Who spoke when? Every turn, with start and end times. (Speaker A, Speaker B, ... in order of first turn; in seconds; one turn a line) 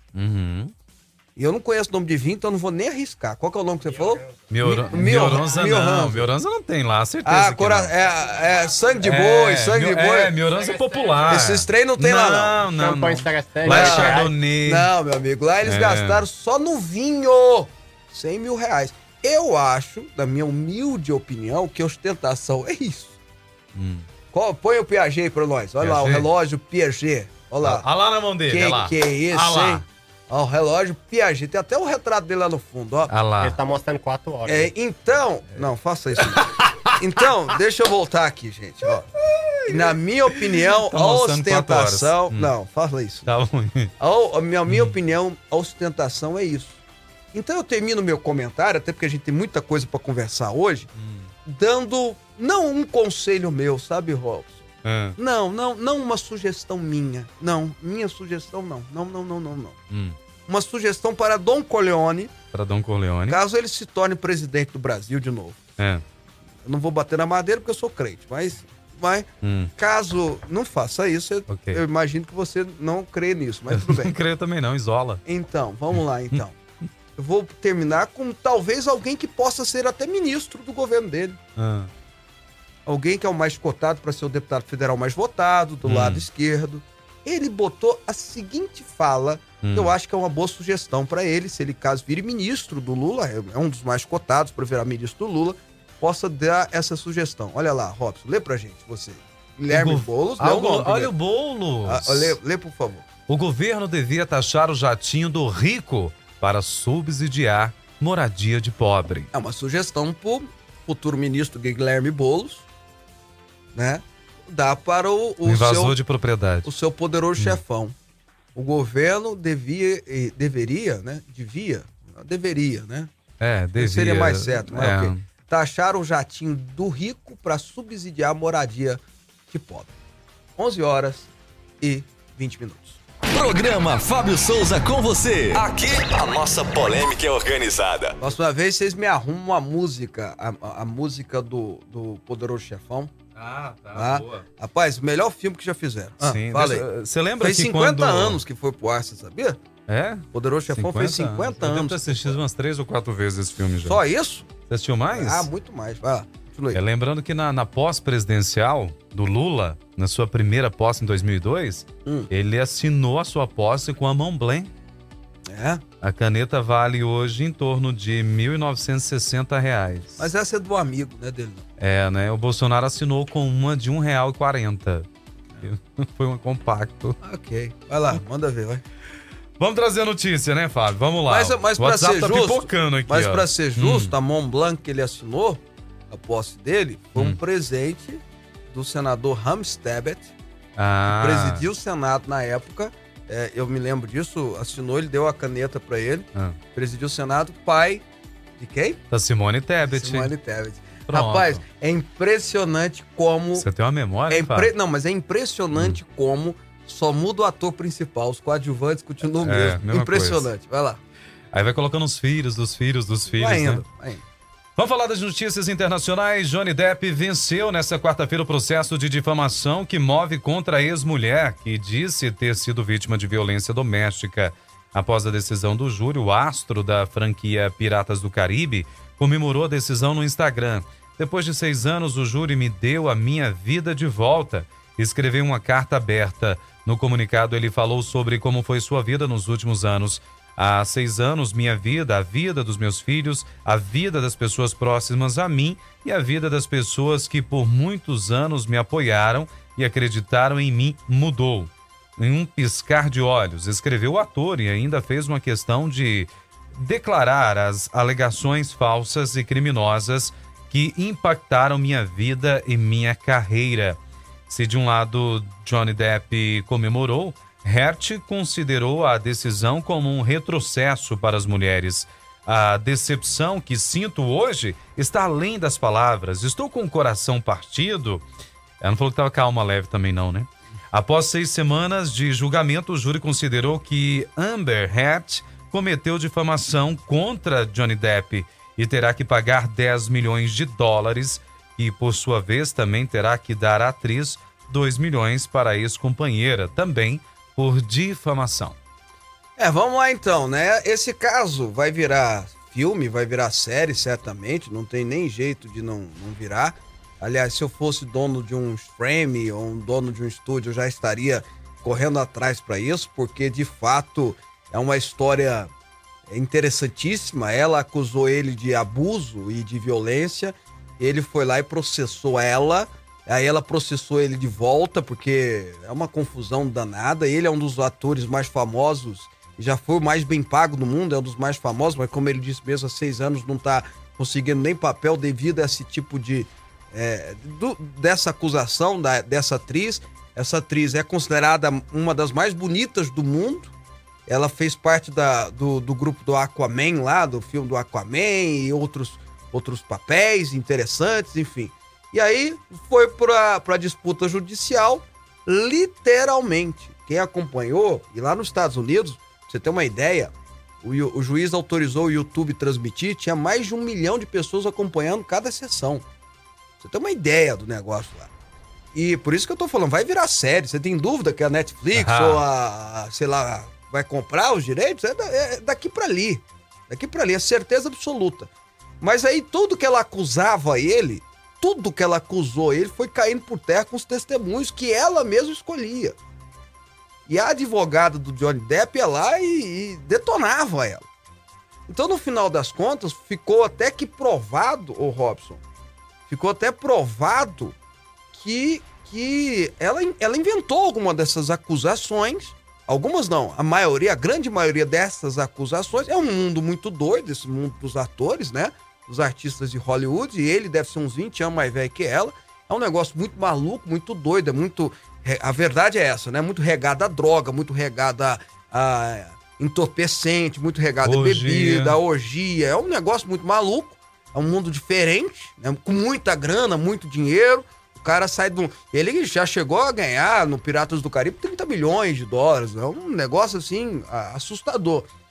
Speaker A: 0.1-0.7
Speaker B: 1.4-6.3
Speaker A: 4.5-7.9
Speaker B: 7.2-10.3
Speaker A: 9.0-14.9
Speaker B: 11.2-12.7
Speaker C: 12.7-14.3
Speaker B: 13.7-23.2
Speaker A: 15.6-16.2
Speaker A: 23.7-24.1
Speaker B: 24.3-27.9
Speaker A: 25.8-26.3
Speaker A: 27.6-29.8
Speaker B: 28.5-33.1
Speaker A: 33.1-33.6
Speaker C: 33.4-34.7
Speaker B: 34.5-39.0
Speaker A: 36.2-37.0
Speaker A: 38.9-42.5
Speaker B: 39.7-43.3
Speaker A: 43.3-43.9
Speaker B: 44.0-46.8
Speaker A: 44.7-45.0
Speaker B: 47.3-50.9
Speaker A: 51.0-51.3
Speaker B: 51.5-54.7
Speaker A: 54.8-55.2
Speaker B: 55.2-59.8
Speaker A: 59.9-60.2
Speaker B: 60.5-62.3
Speaker A: 62.5-63.4
Speaker B: 63.3-65.6
Speaker A: 65.8-66.0
Speaker B: 66.6-74.1
Speaker A: 69.4-69.7
Speaker A: 71.5-71.8
Speaker A: 73.7-75.2
Speaker B: 75.2-76.5
Speaker B: 77.2-81.4
Speaker A: 81.6-81.9
Speaker B: 82.9-101.1
Speaker A: 85.8-86.3
Speaker A: 89.6-89.9
Speaker A: 99.7-102.4
Speaker B: 101.9-103.0
Speaker A: 103.3-109.3
Speaker B: 109.3-112.7
Speaker B: 113.7-116.0
Speaker A: 115.5-116.7
Speaker B: 116.6-118.0
Speaker B: 118.5-123.1
Speaker A: 123.4-125.2
Speaker B: 123.8-129.9
Speaker B: 130.6-133.0
Speaker D: 133.3-138.2
Speaker B: 138.2-143.1
Speaker A: 143.4-144.4
Speaker B: 143.9-146.9
Speaker A: 146.2-148.4
Speaker B: 147.4-149.6
Speaker A: 149.9-154.0
Speaker B: 150.3-152.4
Speaker B: 153.8-154.5
Speaker A: 154.7-155.5
Speaker B: 155.1-156.8
Speaker A: 156.7-164.7
Speaker B: 165.5-165.8
Speaker A: 166.0-170.3
Speaker B: 170.2-171.7
Speaker A: 171.8-175.1
Speaker A: 175.6-177.2
Speaker B: 177.2-178.8
Speaker A: 179.6-184.1
Speaker B: 181.3-190.3
Speaker A: 190.8-191.7
Speaker B: 191.1-198.0
Speaker B: 198.6-199.0
Speaker A: 199.1-200.3
Speaker B: 199.9-203.7
Speaker A: 201.1-201.6
Speaker A: 203.6-204.7
Speaker B: 204.3-211.0
Speaker A: 209.4-210.5
Speaker A: 211.5-213.8
Speaker B: 213.4-214.2
Speaker A: 214.8-278.2
Speaker A: 278.8-298.8
Speaker B: 299.6-315.7
Speaker B: 316.3-343.7
Speaker B: 344.3-366.1
Speaker B: 366.8-368.3
Speaker B: 368.9-378.5
Speaker A: 371.9-372.4
Speaker B: 379.0-386.2
Speaker B: 387.3-391.1
Speaker B: 391.9-395.6
Speaker B: 396.3-397.8
Speaker B: 398.3-435.1
Speaker A: 421.0-422.0